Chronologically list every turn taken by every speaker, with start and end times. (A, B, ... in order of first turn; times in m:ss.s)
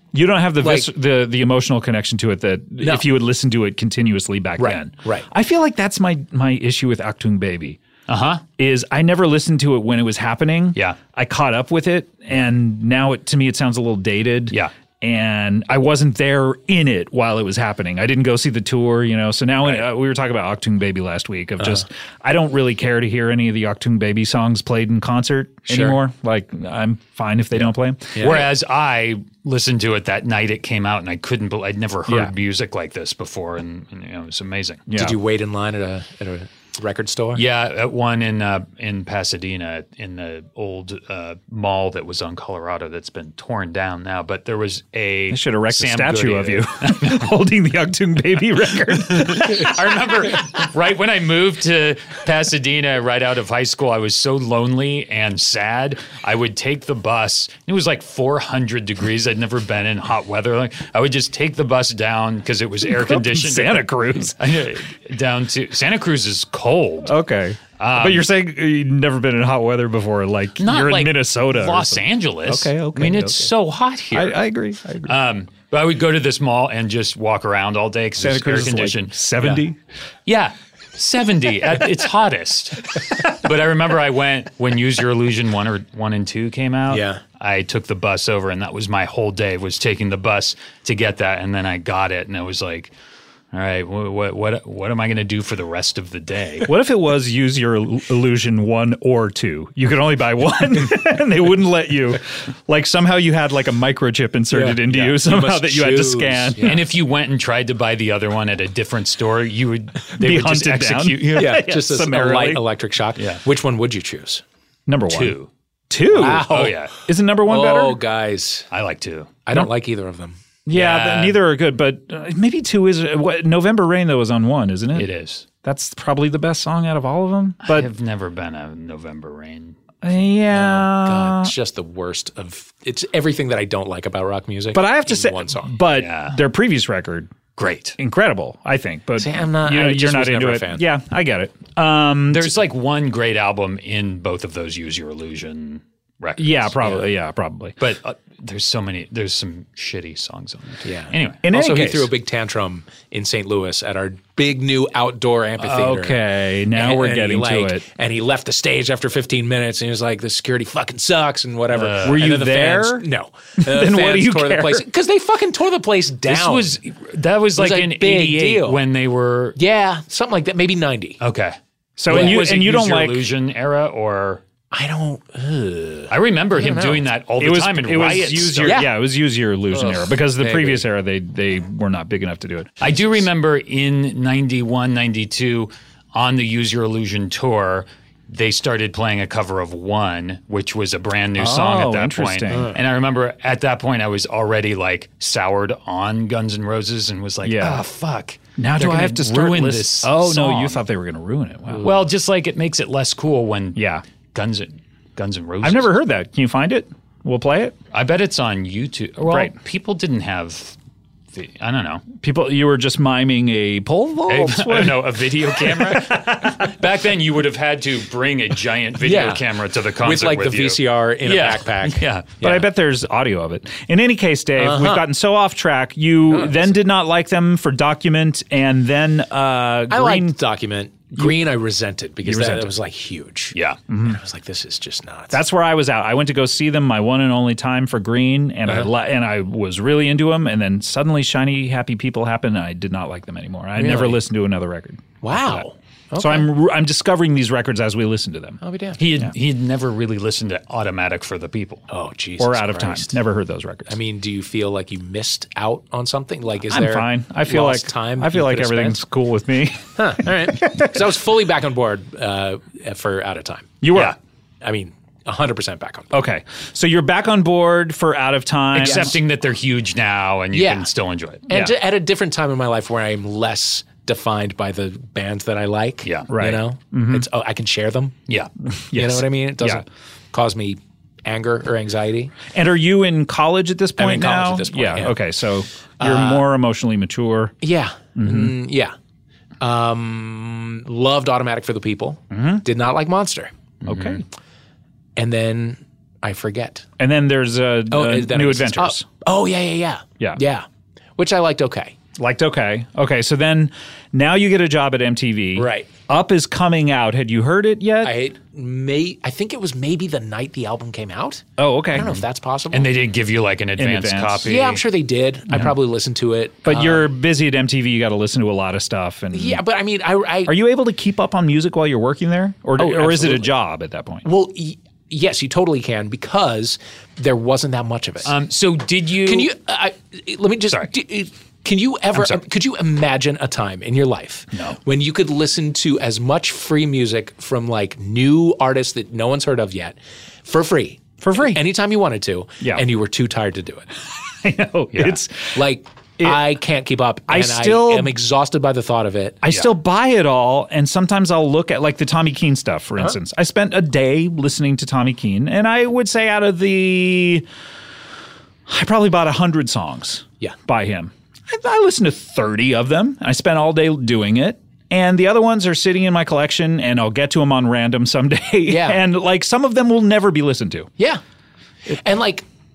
0:00.1-0:07.8 A
0:00.6-0:00.9 B
0:02.8-0:03.0 B
0:04.6-0:05.3 B
0:08.1-0:08.4 C
0:08.6-0:28.3 A
0:21.6-0:21.8 B
0:25.7-0:26.0 B
0:28.2-0:28.5 B
0:28.2-0:34.9 C
0:32.1-0:32.3 A
0:34.9-0:35.2 A
0:34.9-0:37.4 B
0:37.3-0:47.2 C
0:45.3-0:49.9 A
0:49.1-1:07.1 C
1:02.8-1:04.6 A
1:07.0-1:13.5 A
1:07.8-1:08.3 C
1:10.6-1:14.4 C
1:14.1-1:15.2 A
1:15.0-1:19.2 C
1:18.2-1:19.8 A
1:20.2-1:32.9 C
1:26.9-1:27.2 B
1:33.5-1:36.7 C
1:36.7-1:46.8 A
1:44.5-1:46.9 B
1:46.6-1:51.5 C
1:50.2-1:52.6 A
1:51.3-1:54.4 B
1:53.2-1:53.4 C
1:54.9-1:55.4 A
1:55.1-1:55.5 C
1:55.9-1:58.0 A
1:56.1-1:56.8 B
1:56.2-1:56.9 C
1:57.4-1:58.6 B
1:58.7-1:59.4 C
1:59.4-2:00.4 B
2:00.7-2:05.1 A
2:00.7-2:01.4 C
2:04.9-2:05.4 C
2:05.6-2:07.9 A
2:07.6-2:09.8 C
2:10.0-2:11.5 A
2:10.5-2:15.8 B
2:14.7-2:17.3 A
2:15.9-2:16.4 C
2:17.6-2:18.0 C
2:18.0-2:22.6 A
2:19.2-2:20.8 B
2:22.3-2:27.0 C
2:26.4-2:27.7 A
2:27.8-2:31.4 C
2:30.8-2:46.8 B
2:31.4-2:32.1 A
2:35.6-2:37.8 A
2:41.7-2:42.3 C
2:42.0-2:43.1 A
2:43.6-2:44.8 A
2:46.2-2:49.6 C
2:47.6-2:48.8 B
2:49.6-2:51.2 B
2:51.2-2:51.6 C
2:52.0-2:53.2 A
2:52.1-2:54.4 C
2:52.1-2:52.4 B
2:54.7-2:57.1 B
2:56.1-2:58.8 C
2:57.4-3:02.7 A
2:58.6-2:58.9 B
2:59.7-3:00.8 B
3:02.8-3:20.8 C
3:11.4-3:12.7 A
3:12.5-3:12.8 B
3:17.4-3:17.8 A
3:18.6-3:22.0 A
3:21.8-3:25.9 C
3:23.7-3:24.0 A
3:25.6-3:27.7 A
3:27.9-3:30.8 C
3:29.3-3:29.5 A
3:31.3-3:32.0 C
3:32.2-3:36.7 A
3:34.3-3:42.3 C
3:39.0-3:39.4 B
3:40.0-3:42.6 B
3:42.4-3:50.4 A
3:44.6-3:45.0 B
3:46.3-3:46.7 B
3:49.9-3:55.4 B
3:52.2-3:52.7 A
3:53.5-3:53.8 C
3:53.9-3:54.2 A
3:55.3-4:05.6 A
4:03.8-4:04.2 B
4:05.2-4:06.5 B
4:06.2-4:08.6 A
4:08.6-4:09.0 B
4:09.0-4:11.8 C
4:11.9-4:13.1 B
4:12.4-4:14.0 A
4:13.9-4:19.0 B
4:16.7-4:21.0 A
4:20.0-4:23.8 B
4:23.8-4:24.2 A
4:24.6-4:26.1 B
4:26.1-4:29.1 A
4:28.7-4:31.5 C
4:28.8-4:29.1 B
4:30.5-4:30.9 B
4:31.5-4:38.2 B
4:36.0-4:36.3 C
4:36.3-4:37.3 A
4:38.7-4:39.8 A
4:38.9-4:42.4 B
4:42.5-4:47.5 A
4:44.0-4:45.2 B
4:46.0-4:46.4 B
4:47.6-4:48.9 B
4:48.2-4:48.6 A
4:49.6-4:53.5 B
4:52.3-4:52.6 A
4:53.8-4:54.2 C
4:53.8-4:54.2 A
4:55.2-4:56.8 B
4:57.0-4:59.1 A
4:57.9-5:00.6 B
5:01.2-5:02.0 B
5:02.2-5:08.2 A
5:05.6-5:05.9 B
5:08.0-5:12.9 B
5:11.6-5:12.2 A
5:12.7-5:14.8 C
5:13.8-5:14.5 A
5:14.4-5:17.1 B
5:16.6-5:19.6 A
5:19.3-5:20.6 B
5:20.4-5:24.3 A
5:22.8-5:23.5 B
5:24.2-5:28.3 B
5:28.2-5:29.5 C
5:29.2-5:43.8 B
5:41.2-5:41.6 A
5:42.6-5:42.8 A
5:44.1-5:45.6 A
5:44.9-5:45.2 C
5:45.5-5:49.4 B
5:46.2-5:46.5 A
5:47.3-5:48.2 A
5:49.4-5:57.4 A
5:58.7-6:10.9 A
6:08.7-6:09.0 B
6:11.9-6:12.4 B